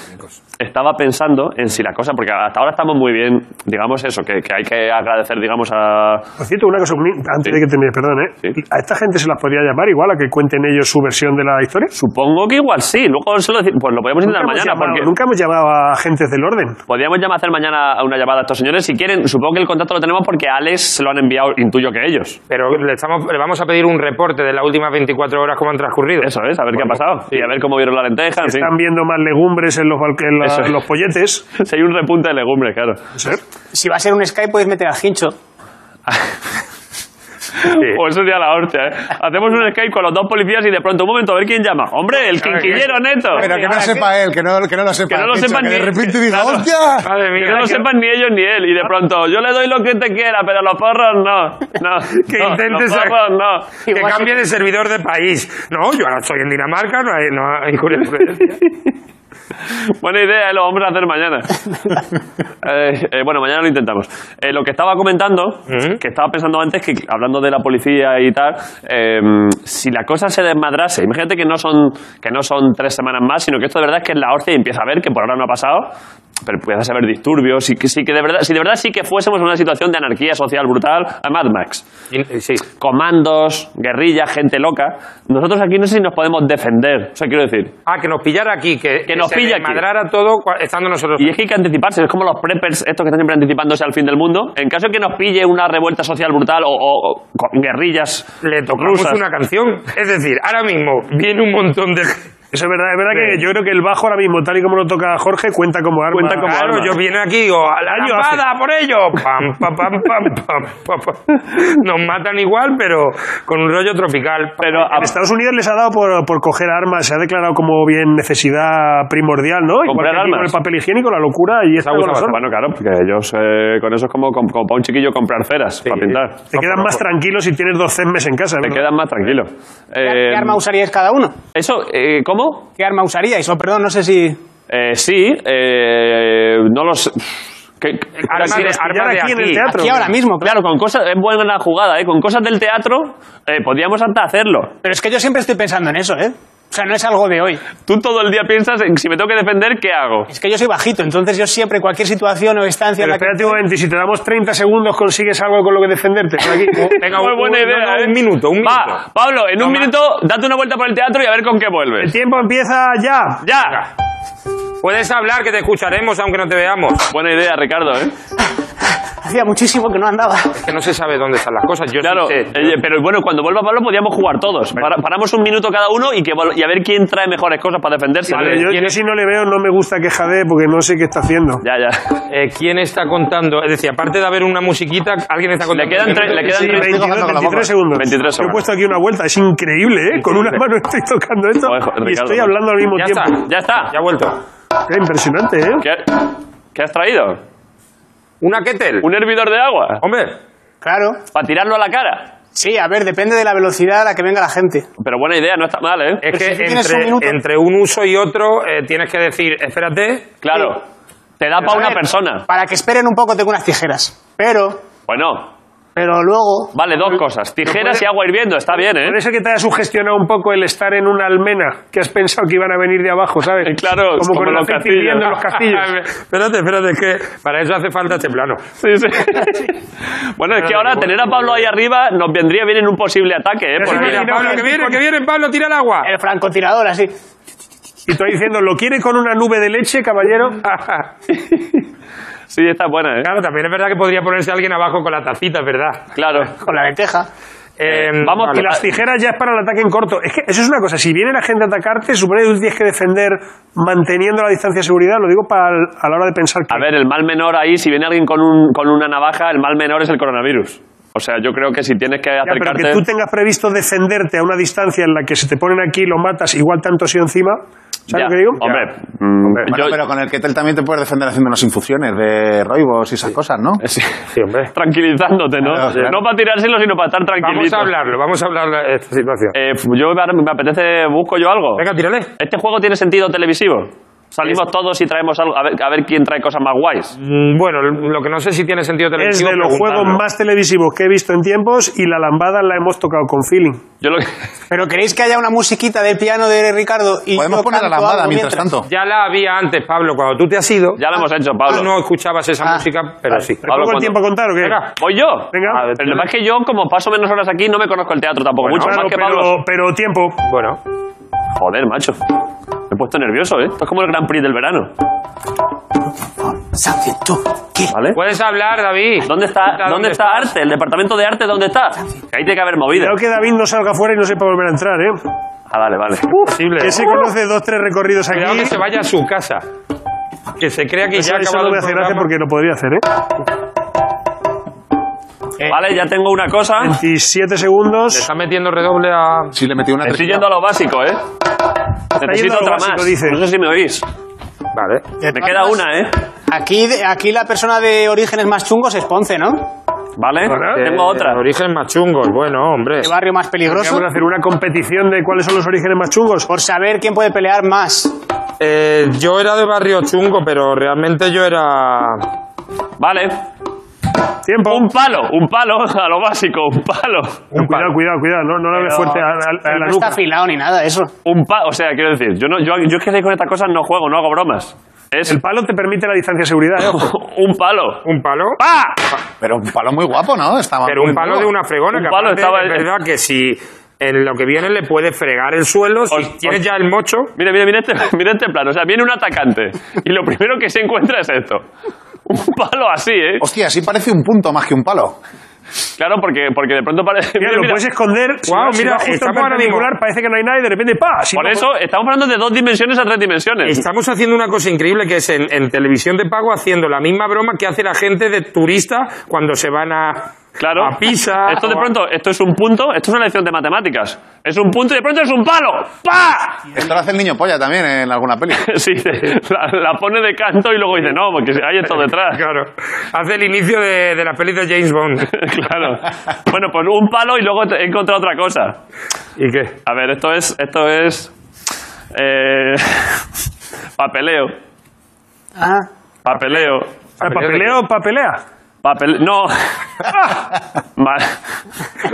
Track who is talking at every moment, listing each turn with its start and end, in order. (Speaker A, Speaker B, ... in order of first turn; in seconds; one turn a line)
Speaker A: 0.6-6.3
Speaker B: 6.4-11.9
Speaker A: 11.9-15.1
Speaker B: 14.2-16.8
Speaker A: 16.9-22.4
Speaker C: 22.5-27.5
Speaker A: 26.2-28.7
Speaker B: 28.4-31.4
Speaker A: 30.4-30.8
Speaker A: 31.6-33.0
Speaker B: 33.1-33.4
Speaker D: 33.7-35.4
Speaker A: 36.1-36.3
Speaker A: 37.6-43.5
Speaker C: 37.6-38.0
Speaker C: 42.4-42.9
Speaker D: 43.3-44.1
Speaker E: 43.3-47.1
Speaker A: 45.1-46.7
Speaker C: 47.0-47.9
Speaker A: 47.4-53.8
Speaker C: 52.1-53.2
Speaker D: 53.9-54.4
Speaker C: 53.9-58.6
Speaker A: 59.7-61.9
Speaker A: 62.6-75.9
Speaker C: 65.7-66.0
Speaker A: 76.4-81.8
Speaker C: 82.1-82.6
Speaker A: 82.8-87.7
Speaker C: 87.8-91.3
Speaker A: 89.1-89.8
Speaker A: 91.2-98.3
Speaker C: 98.4-102.2
Speaker A: 98.8-99.2
Speaker B: 102.5-106.7
Speaker C: 103.1-103.4
Speaker A: 106.1-106.9
Speaker C: 106.3-115.0
Speaker B: 107.9-108.4
Speaker A: 114.6-115.1
Speaker B: 114.9-122.4
Speaker A: 119.8-120.5
Speaker C: 121.8-122.4
Speaker A: 122.3-126.4
Speaker C: 125.8-127.0
Speaker B: 126.5-128.8
Speaker A: 128.6-130.6
Speaker D: 130.0-131.3
Speaker A: 131.5-132.7
Speaker D: 132.8-134.4
Speaker A: 134.7-138.7
Speaker C: 138.2-139.7
Speaker B: 138.3-140.1
Speaker D: 139.6-140.6
Speaker A: 140.4-144.7
Speaker D: 144.8-147.6
Speaker A: 147.8-150.3
Speaker D: 150.3-153.6
Speaker B: 153.0-156.9
Speaker C: 156.6-159.0
Speaker A: 156.8-162.1
Speaker C: 159.6-159.9
Speaker B: 162.0-163.4
Speaker A: 163.4-163.8
Speaker C: 164.8-167.1
Speaker A: 167.1-168.1
Speaker D: 169.2-170.6
Speaker C: 170.5-172.8
Speaker A: 172.0-178.6
Speaker B: 178.3-181.6
Speaker C: 178.3-179.0
Speaker A: 181.6-182.0
Speaker C: 182.3-186.8
Speaker A: 185.7-187.0
Speaker B: 186.2-193.4
Speaker E: 186.6-187.8
Speaker A: 187.9-188.6
Speaker C: 190.2-190.6
Speaker A: 191.6-192.5
Speaker C: 192.9-194.4
Speaker A: 193.4-193.9
Speaker B: 194.9-195.8
Speaker A: 195.8-197.4
Speaker C: 198.4-199.1
Speaker A: 199.0-200.0
Speaker C: 200.0-200.4
Speaker D: 200.8-201.2
Speaker A: 201.3-202.3
Speaker D: 202.5-204.9
Speaker A: 205.0-206.2
Speaker C: 206.2-210.3
Speaker D: 206.3-207.4
Speaker A: 210.4-210.8
Speaker A: 211.4-212.5
Speaker D: 211.6-214.8
Speaker A: 215.1-215.5
Speaker D: 215.9-217.2
Speaker A: 216.7-219.2
Speaker C: 217.7-217.9
Speaker B: 219.0-225.9
Speaker A: 223.6-225.3
Speaker C: 225.3-228.6
Speaker A: 228.8-234.4
Speaker C: 230.5-231.7
Speaker B: 233.8-235.0
Speaker C: 233.8-236.1
Speaker D: 236.0-237.1
Speaker B: 238.1-240.6
Speaker C: 240.6-241.1
Speaker A: 241.3-241.8
Speaker A: 242.5-243.3
Speaker C: 243.2-246.1
Speaker A: 246.1-246.5
Speaker D: 246.6-247.3
Speaker C: 247.8-248.7
Speaker A: 247.8-248.8
Speaker B: 248.4-256.9
Speaker A: 256.7-263.0
Speaker B: 262.4-268.6
Speaker A: 268.1-270.0
Speaker E: 269.6-273.8
Speaker A: 273.8-277.9
Speaker C: 274.3-274.7
Speaker E: 275.6-276.2
Speaker C: 277.4-279.5
Speaker A: 279.5-281.8
Speaker C: 281.8-282.3
Speaker A: 282.4-287.1
Speaker C: 287.2-290.2
Speaker B: 289.2-293.8
Speaker A: 294.0-294.3
Speaker D: 294.7-298.7
Speaker E: 297.3-298.9
Speaker C: 298.9-301.0
Speaker A: 301.0-301.9
Speaker C: 301.7-303.6
Speaker D: 302.6-303.5
Speaker B: 303.6-304.8
Speaker A: 303.6-304.2
Speaker C: 304.6-304.9
Speaker A: 305.0-309.5
Speaker B: 305.5-305.9
Speaker C: 305.7-306.3
Speaker B: 308.6-310.4
Speaker C: 308.7-309.0
Speaker C: 310.4-310.8
Speaker A: 311.6-312.2
Speaker A: 312.9-314.9
Speaker D: 316.4-317.9
Speaker A: 317.9-318.2
Speaker C: 318.1-320.5
Speaker A: 319.2-323.1
Speaker B: 322.9-325.2
Speaker A: 325.7-326.4
Speaker C: 326.3-327.3
Speaker B: 326.8-328.8
Speaker C: 328.3-329.6
Speaker C: 330.6-332.3
Speaker B: 331.1-333.0
Speaker A: 335.6-336.9
Speaker B: 336.8-338.3
Speaker C: 338.1-339.5
Speaker E: 339.5-340.5
Speaker A: 340.0-341.2
Speaker A: 342.1-344.0
Speaker B: 342.2-343.4
Speaker C: 344.7-345.0
Speaker D: 345.2-345.8
Speaker A: 345.3-346.1
Speaker D: 346.5-349.7
Speaker A: 350.2-351.4
Speaker B: 350.5-350.8
Speaker C: 350.6-353.1
Speaker D: 353.0-354.1
Speaker B: 353.6-356.5
Speaker D: 356.5-358.1
Speaker C: 358.6-362.3
Speaker A: 363.0-363.4
Speaker B: 364.4-364.9
Speaker A: 364.6-367.5
Speaker C: 367.5-367.9
Speaker B: 367.5-370.2
Speaker D: 368.9-371.1
Speaker A: 371.2-375.4
Speaker B: 375.2-377.1
Speaker A: 376.8-378.1
Speaker C: 378.0-378.6
Speaker A: 378.6-379.0
Speaker E: 379.4-381.5
Speaker C: 380.8-387.3
Speaker A: 381.9-382.8
Speaker A: 386.1-386.6
Speaker A: 387.4-391.6
Speaker A: 392.2-393.4
Speaker E: 393.4-395.1
Speaker A: 396.0-397.8
Speaker B: 397.4-401.7
Speaker C: 398.5-399.9
Speaker A: 401.3-403.8
Speaker C: 403.6-411.9
Speaker A: 410.6-410.9
Speaker A: 411.4-416.6
Speaker E: 416.7-418.7
Speaker A: 418.6-422.4
Speaker C: 422.0-425.3
Speaker A: 425.3-428.8
Speaker C: 429.4-429.8
Speaker A: 429.8-431.3
Speaker A: 432.1-433.2
Speaker A: 434.0-434.5
Speaker D: 435.6-435.9
Speaker A: 436.2-436.9
Speaker C: 436.4-437.8
Speaker B: 437.2-438.4
Speaker A: 438.8-440.2
Speaker A: 441.0-441.4